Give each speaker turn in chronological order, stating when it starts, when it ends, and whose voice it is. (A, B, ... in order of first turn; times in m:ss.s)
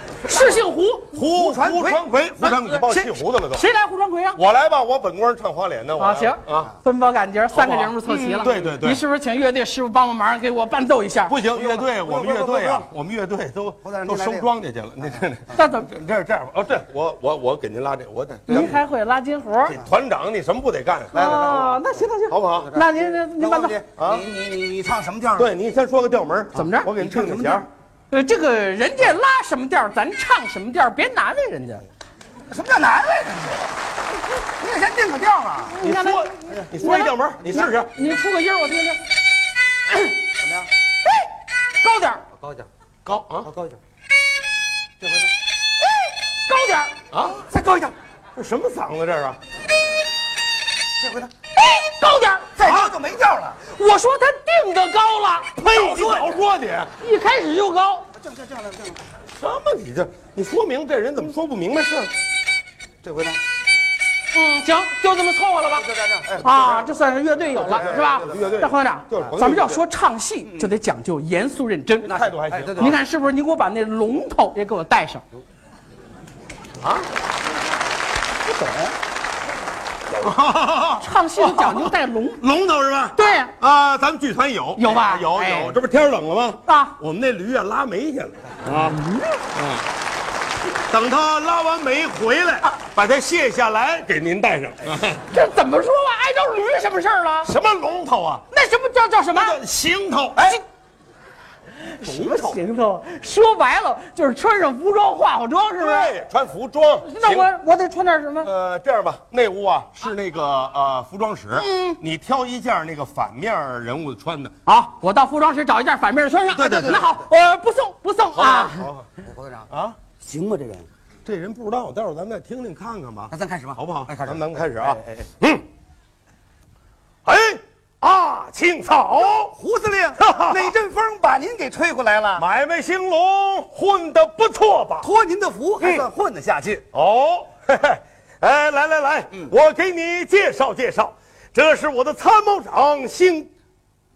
0:00.2-0:01.2 A
0:00.2-0:00.6 B
0:01.1-0:03.6 C
0:01.3-0:02.0 B
0:02.4-0:04.4 A
0:04.4-0:06.7 C
0:06.0-0:11.4 A
0:07.5-0:09.0 C
0:08.1-0:08.6 B
0:11.3-0:18.8 C
0:11.5-0:12.9 B
0:13.8-0:15.2 B
0:15.5-0:15.9 A
0:18.5-0:19.8 A
0:19.7-0:22.7 C
0:21.1-0:23.8 A
0:21.1-0:21.6 B
0:22.6-0:25.5 B
0:24.0-0:24.3 C
0:25.4-0:27.7 C
0:26.5-0:26.9 A
0:27.0-0:27.7 B
0:28.1-0:31.9 A
0:32.5-0:33.7 B
0:34.5-0:35.8 B
0:35.7-0:37.1 A
0:35.8-0:37.9 C
0:37.4-0:37.7 B
0:37.8-0:39.0 A
0:39.9-0:40.1 A
0:41.0-0:42.2 A
0:43.0-0:43.5 C
0:43.4-0:43.8 B
0:46.3-0:46.9 A
0:47.1-0:47.6 C
0:47.5-0:47.9 B
0:48.4-0:49.4 C
0:51.0-0:51.3 B
0:51.6-0:52.8 A
0:52.6-0:53.6 B
0:52.6-0:52.9 C
0:53.6-0:56.2 A
0:55.6-0:56.9 C
0:57.0-0:58.1 A
0:58.1-0:59.0 B
0:59.4-1:02.1 C
1:03.0-1:03.4 B
1:04.3-1:12.1 A
1:05.8-1:06.8 B
1:07.6-1:09.8 C
1:07.6-1:08.5 B
1:12.0-1:13.0 C
1:12.1-1:13.0 B
1:12.8-1:15.2 A
1:16.8-1:17.1 C
1:18.5-1:19.0 A
1:20.1-1:29.0 C
1:21.0-1:22.4 A
1:23.2-1:23.5 A
1:24.8-1:25.8 A
1:26.7-1:27.0 A
1:28.9-1:29.4 A
1:29.5-1:29.8 C
1:30.9-1:35.2 C
1:35.3-1:37.5 A
1:37.4-1:38.4 C
1:38.5-1:39.6 A
1:39.3-1:40.6 C
1:41.8-1:46.2 A
1:42.0-1:42.6 B
1:45.8-1:47.5 C
1:47.0-1:48.5 A
1:48.4-1:54.5 C
1:51.5-1:52.0 A
1:54.7-1:58.9 A
1:56.5-1:57.0 C
1:58.4-1:59.1 C
1:59.2-1:59.7 B
1:59.7-2:00.0 C
2:00.2-2:00.9 B
2:01.2-2:05.6 C
2:03.3-2:05.2 B
2:07.3-2:09.6 C
2:09.5-2:12.4 B
2:10.2-2:10.7 C
2:12.4-2:15.1 C
2:15.0-2:16.8 B
2:15.8-2:16.1 C
2:16.9-2:23.5 C